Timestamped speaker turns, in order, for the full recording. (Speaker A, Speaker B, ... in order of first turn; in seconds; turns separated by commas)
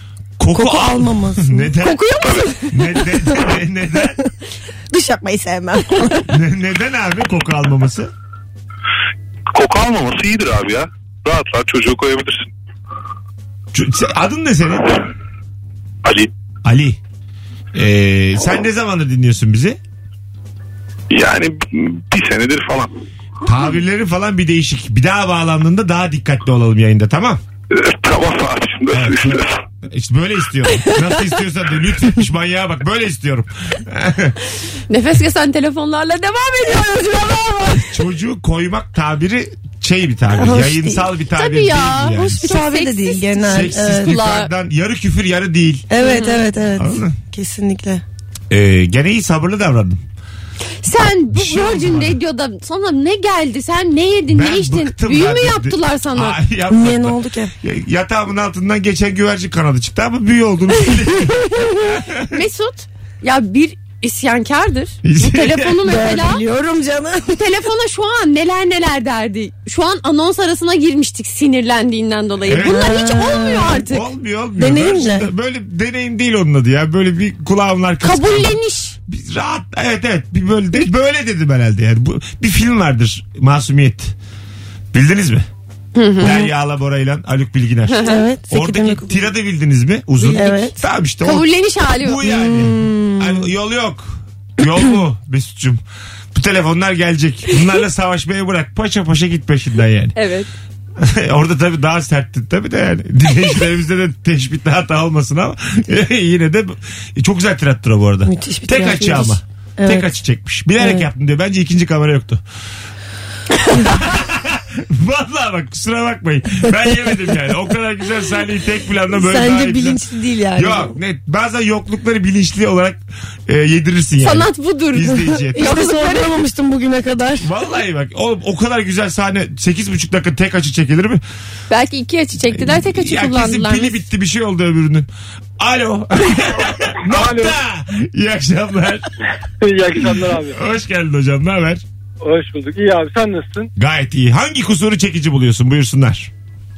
Speaker A: 0.4-2.0, Speaker B: 0.5-2.2, Speaker C: 1.8-2.6, Speaker A: 2.7-4.2, Speaker B: 4.9-6.3, Speaker A: 6.3-8.1, Speaker D: 9.5-12.5, Speaker A: 13.7-15.0, Speaker D: 16.0-16.3, Speaker A: 16.6-17.0, Speaker A: 17.7-19.8, Speaker D: 21.1-22.9, Speaker A: 23.4-27.4, Speaker D: 27.7-29.6, Speaker A: 28.9-34.4, Speaker C: 34.9-37.9, Speaker A: 37.8-42.5, Speaker B: 40.3-41.1, Speaker C: 41.4-44.5, Speaker B: 42.4-44.2, Speaker A: 43.5-45.9, Speaker B: 45.9-48.0, Speaker C: 46.0-46.4, Speaker A: 46.8-47.2, Speaker A: 48.5-50.0, Speaker C: 50.8-56.4, Speaker A: 51.3-52.2, Speaker A: 54.3-62.3, Speaker B: 56.7-57.5, Speaker C: 62.3-66.4, Speaker A: 65.0-65.9, Speaker B: 65.8-67.5, Speaker C: 67.3-74.0, Speaker A: 72.5-73.0, Speaker B: 72.5-73.9, Speaker A: 73.8-84.1, Speaker B: 74.6-75.3, Speaker C: 78.0-79.0, Speaker A: 84.9-85.4, Speaker C: 85.9-86.4, Speaker A: 86.2-91.5, Speaker C: 87.9-88.2, Speaker B: 88.0-89.3, Speaker B: 90.2-90.8, Speaker C: 91.2-92.2, Speaker A: 92.0-95.8, Speaker B: 92.2-93.5, Speaker A: 96.3-100.1, Speaker C: 100.1-100.5, Speaker A: 101.0-112.4, Speaker B: 108.3-110.1, Speaker B: 110.8-111.1, Speaker A: 113.7-120.0, Speaker B: 119.1-120.9, Speaker A: 120.5-125.7, Speaker C: 124.2-126.3, Speaker B: 125.5-127.5, Speaker A: 127.4-131.2, Speaker C: 131.7-134.0, Speaker A: 132.5-135.1, Speaker A: 135.6-139.1, Speaker E: 137.0-137.6, Speaker E: 139.6-140.6, Speaker A: 140.4-141.8, Speaker E: 142.2-143.7, Speaker A: 143.8-146.3